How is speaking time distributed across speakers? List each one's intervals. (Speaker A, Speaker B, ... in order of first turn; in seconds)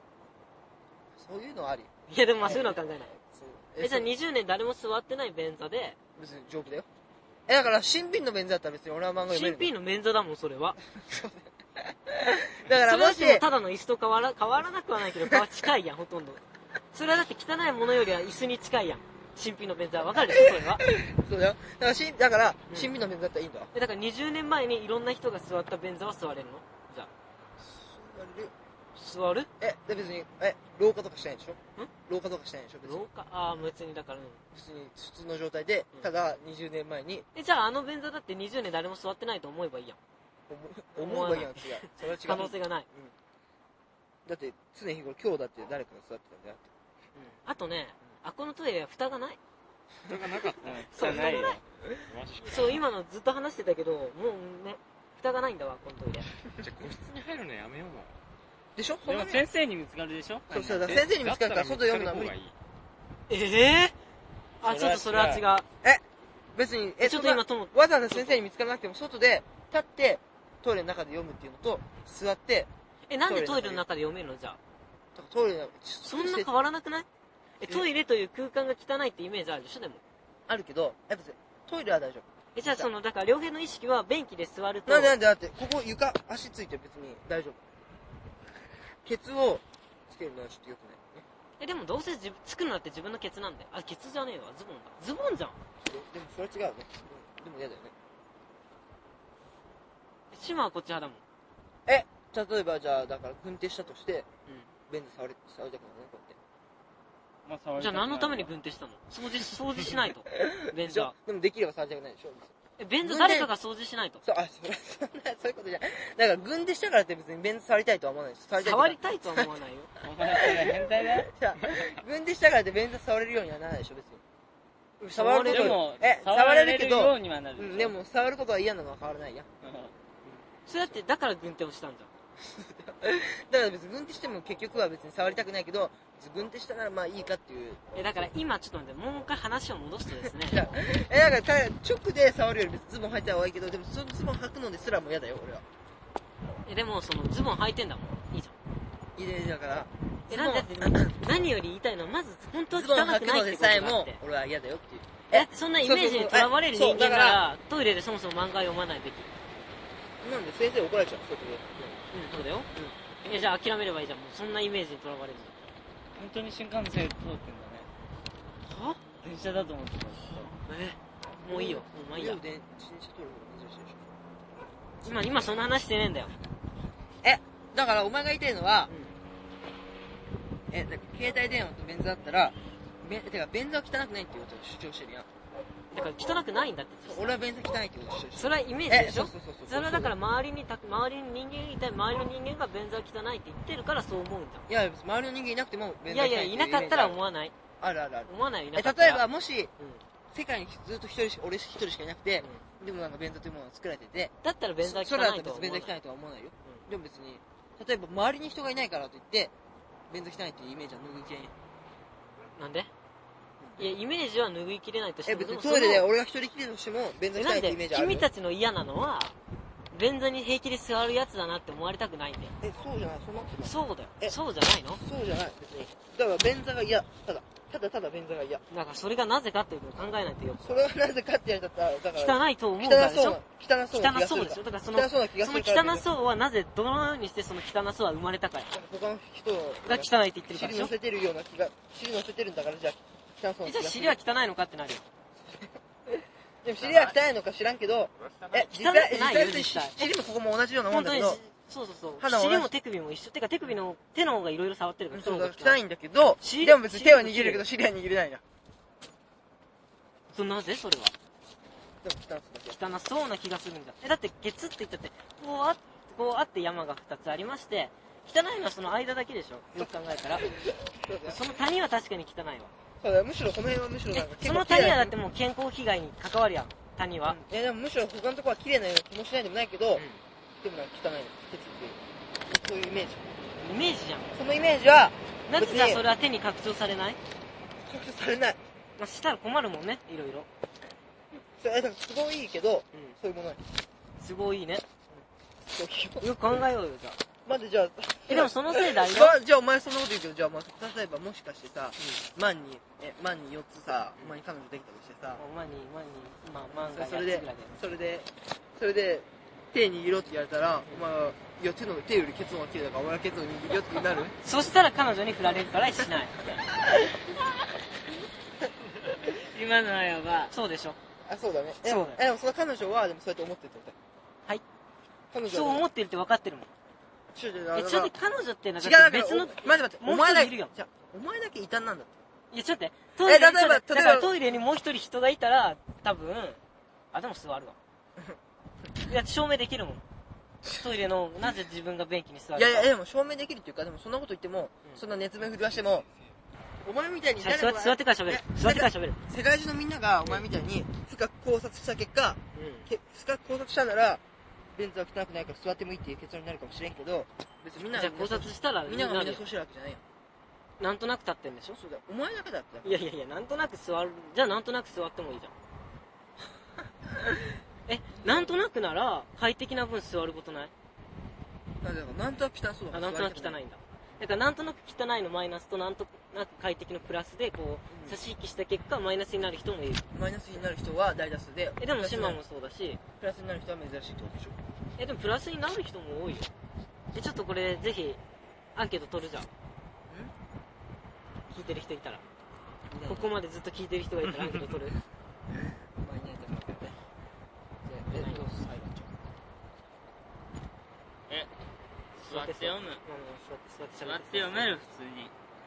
Speaker A: 1.1-4.1, 6.2-6.9, 7.5-9.7, 10.9-13.4, 20.1-23.7, 27.6-28.5, 29.6-33.1, 34.5-37.2, 40.5-43.1, 44.2-46.7, 58.8-59.5, 60.5-62.3, 66.5-72.7, 73.3-73.8, 75.1-76.5, 80.5-82.9, 84.9-87.6, 89.0-91.2, 95.8-97.9, 101.8-104.3, 104.9-106.4, 110.3-112.5, 113.0-113.5, 114.2-119.5, 120.3-124.2, 125.1-129.5, 132.4-137.8, 140.4-145.6, 149.2-151.2, 152.7-157.4, 160.2-161.7, 171.5-174.1, 177.2-178.9, 180.7-185.3, 187.0-190.1, 194.7-197.2, 197.8-199.7, 200.3-209.5, 210.1-211.5, 213.6-213.9, 215.2-218.3, 222.6-224.3, 225.0-228.6, 230.6-236.1, 238.7-244.2, 245.5-251.4, 252.2-252.7, 255.1-258.4, 262.0-262.8, 269.7-271.4, 273.0-275.1, 277.2-280.0, 280.6-283.3, 284.3-286.0, 287.8-288.6, 291.6-293.6, 295.7-296.6, 297.4-305.4, 306.7-314.3, 321.2-323.9, 325.3-325.9, 327.3-328.1, 328.8-332.1, 333.2-334.3, 342.5-346.1, 346.8-354.2, 354.7-360.0, 361.7-363.0, 368.2-368.5, 371.8-373.6, 377.9-378.2, 380.1-382.4, 383.2-384.6, 392.9-393.3, 396.0-397.0, 397.8-399.1
Speaker B: 2.1-3.1, 3.8-6.0, 9.3-10.8, 12.8-16.4, 16.9-20.9, 23.7-27.1, 28.9-29.5, 32.8-34.4, 37.3-40.0, 41.0-42.9, 47.1-49.4, 50.9-51.6, 52.4-56.3, 63.3-63.9, 64.6-65.7, 67.0-68.4, 73.1-74.6, 76.0-77.1, 77.6-80.0, 82.5-85.1, 91.6-95.5, 100.3-101.2, 107.8-111.1, 112.8-114.2, 118.6-119.9, 125.0-125.8, 130.7-132.1, 137.9-140.6, 146.7-148.5, 150.3-154.2, 155.3-159.3, 161.8-162.7, 163.2-165.6, 168.7-169.0, 170.7-172.4, 175.0-176.3, 178.9-179.1, 185.9-187.4, 188.4-194.7, 196.1-197.5, 198.3-199.2, 204.4-205.9, 212.6-212.9, 213.8-216.1, 217.3-219.3, 219.9-222.5, 223.6-225.0, 228.7-230.9, 232.2-233.4, 233.9-238.7, 239.8-240.9, 243.6-245.0, 248.6-250.1, 250.9-255.8, 256.4-257.6, 260.3-261.1, 262.7-270.5, 271.2-272.7, 274.1-277.4, 279.9-280.2, 283.6-284.3, 285.5-287.2, 289.0-290.5, 294.2-294.8, 296.2-297.2, 298.3-299.4, 302.0-302.2, 305.4-307.8, 314.4-316.6, 320.5-321.0, 321.8-322.2, 325.5-326.7, 327.7-330.7, 332.5-336.6, 337.1-337.8, 339.1-340.0, 340.6-342.9, 347.4-349.2, 352.5-352.9, 357.9-359.4, 360.8-361.8, 362.8-365.5, 367.9-370.7, 372.9-380.0, 381.8-383.0, 385.0-386.5, 387.1-388.2, 388.8-389.5, 391.5-392.2, 393.0-395.0, 398.0-398.5, 402.3-404.8
Speaker C: 50.1-51.2, 52.0-52.8, 56.6-58.2, 60.5-62.5, 246.8-247.1
Speaker D: 50.6-51.6, 59.0-60.9, 64.6-65.4, 107.5-108.5, 120.0-121.3, 125.5-127.9, 129.6-129.9, 166.1-167.9, 169.2-170.5, 319.3-320.5, 402.2-403.0, 404.0-405.3